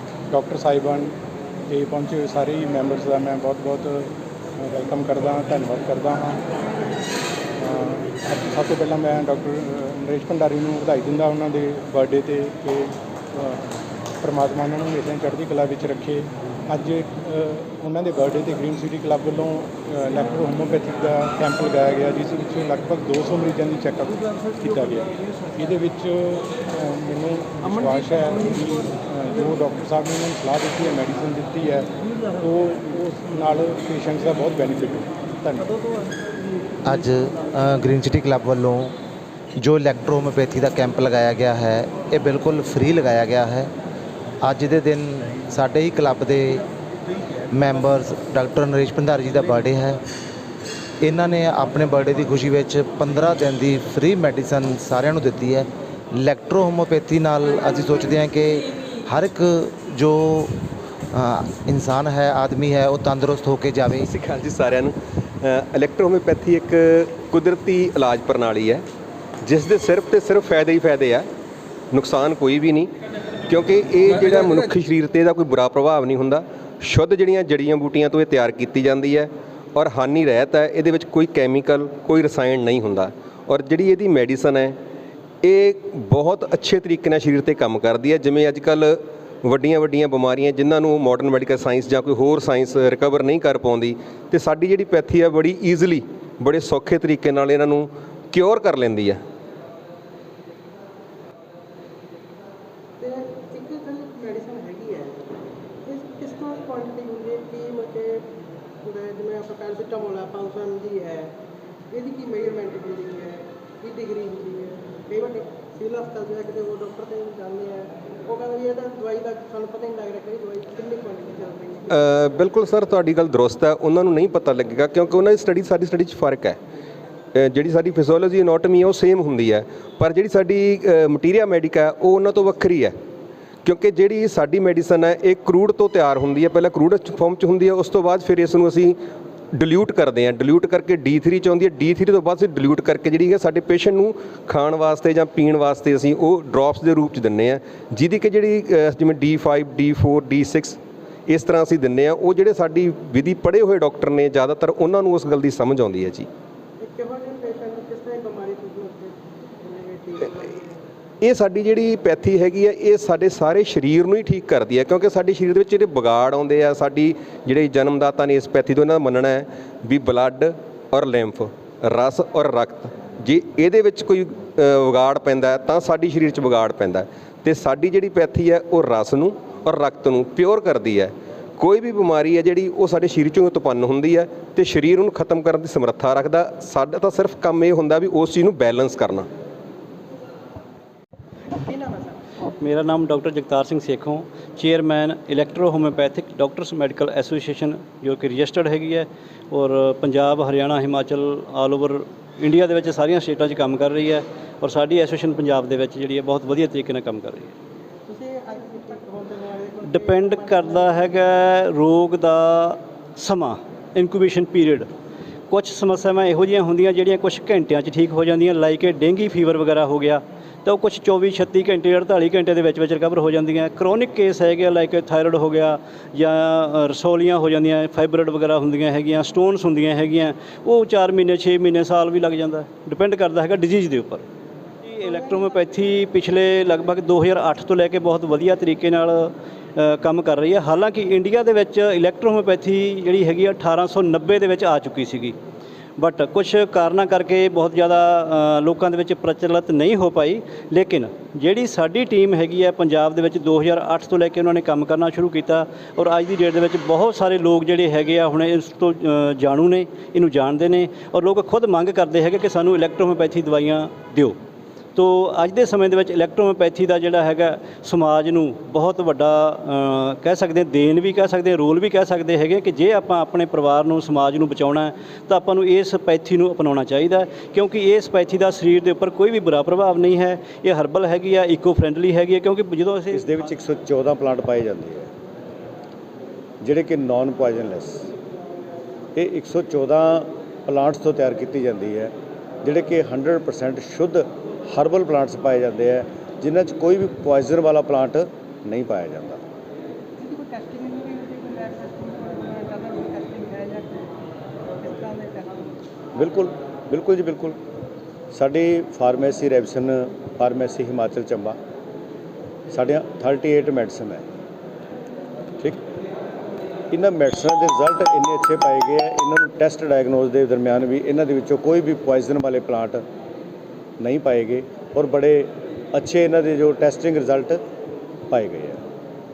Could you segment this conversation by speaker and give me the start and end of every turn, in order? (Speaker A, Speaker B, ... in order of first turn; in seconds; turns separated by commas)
Speaker A: 0.3-1.1, Speaker A: 1.7-6.4, Speaker A: 7.6-13.7, Speaker A: 14.2-35.7, Speaker B: 36.8-38.9, Speaker B: 39.6-43.7, Speaker B: 44.4-46.6, Speaker B: 47.5-50.0, Speaker B: 51.0-60.5, Speaker B: 61.1-64.1, Speaker C: 64.0-68.8, Speaker C: 69.4-71.3, Speaker C: 71.9-72.9, Speaker C: 73.5-84.8, Speaker C: 85.4-99.2, Speaker D: 103.0-108.2, Speaker D: 108.8-111.3, Speaker D: 111.9-121.9, Speaker C: 121.9-126.6, Speaker C: 127.3-132.9, Speaker C: 133.6-138.9, Speaker C: 139.5-156.3, Speaker D: 156.8-160.8, Speaker C: 161.2-189.3, Speaker D: 191.6-192.2, Speaker E: 192.6-207.5, Speaker D: 208.1-211.2, Speaker E: 209.8-214.9, Speaker E: 215.5-234.2, Speaker E: 234.8-245.3, Speaker E: 246.0-264.4, Speaker E: 264.9-283.3, Speaker F: 283.1-285.1, Speaker F: 286.6-288.1, Speaker F: 289.1-292.1, Speaker F: 292.6-299.4, Speaker D: 300.2-304.1, Speaker D: 304.8-305.7, Speaker F: 306.1-307.6, Speaker F: 308.3-311.6, Speaker F: 312.7-314.2, Speaker F: 316.9-323.0, Speaker F: 324.0-327.6, Speaker F: 328.3-328.8